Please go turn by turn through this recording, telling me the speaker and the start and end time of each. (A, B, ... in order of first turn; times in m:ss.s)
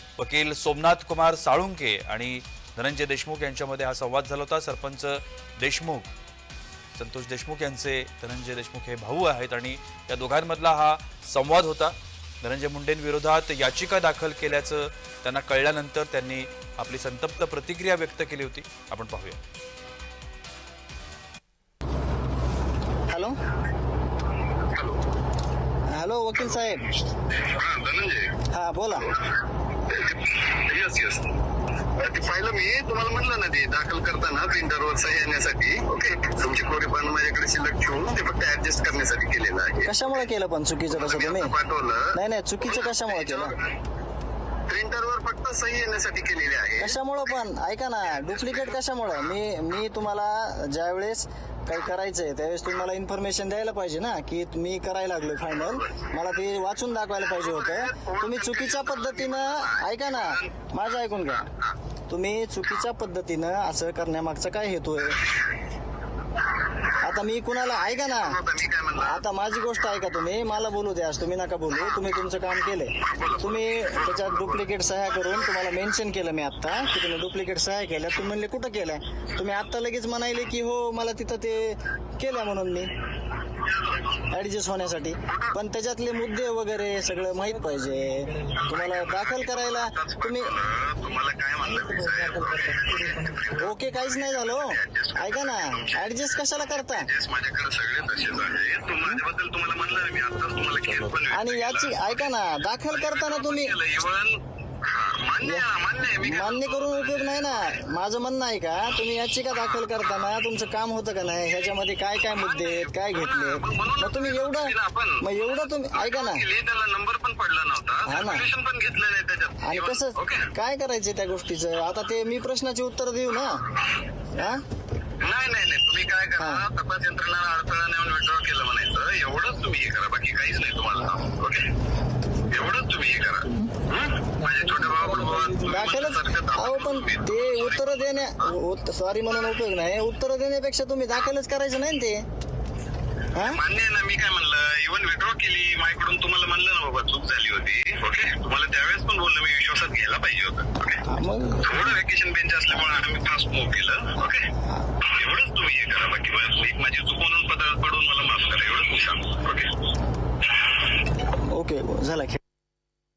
0:00.2-0:06.1 A
0:06.9-0:19.4 A
0:23.1-0:23.3 B
0:24.7-0:25.0 C
0:25.9-0:26.8 B
0:27.4-0:28.3 C
0:28.5-0:29.1 B
0:29.9-0:31.3 C
0:32.0-0:40.2 C
0:39.8-0:41.5 B
0:40.9-0:43.6 C
0:42.1-0:43.5 B
0:44.7-0:47.0 C
0:46.8-1:01.5 B
0:48.2-0:48.8 C
0:55.6-0:56.0 C
0:57.2-1:01.7 C
1:02.1-1:05.2 B
1:07.0-1:08.4 B
1:07.8-1:09.2 C
1:09.0-1:22.9 B
1:13.0-1:14.7 C
1:24.3-1:30.6 B
1:25.2-1:25.6 C
1:28.6-1:36.1 C
1:33.6-1:37.1 B
1:36.7-1:41.9 C
1:41.3-1:43.8 B
1:42.9-1:47.7 C
1:45.4-1:56.5 B
1:52.4-1:55.3 C
1:55.9-2:00.5 C
1:58.0-1:58.4 B
1:59.6-2:03.6 B
2:04.4-2:04.6 B
2:05.2-2:11.7 C
2:06.4-2:06.6 B
2:12.5-2:18.5 C
2:15.6-2:22.2 B
2:23.3-2:23.6 B
2:23.4-2:31.0 C
2:31.1-2:31.8 B
2:31.6-2:39.7 C
2:41.3-2:42.4 B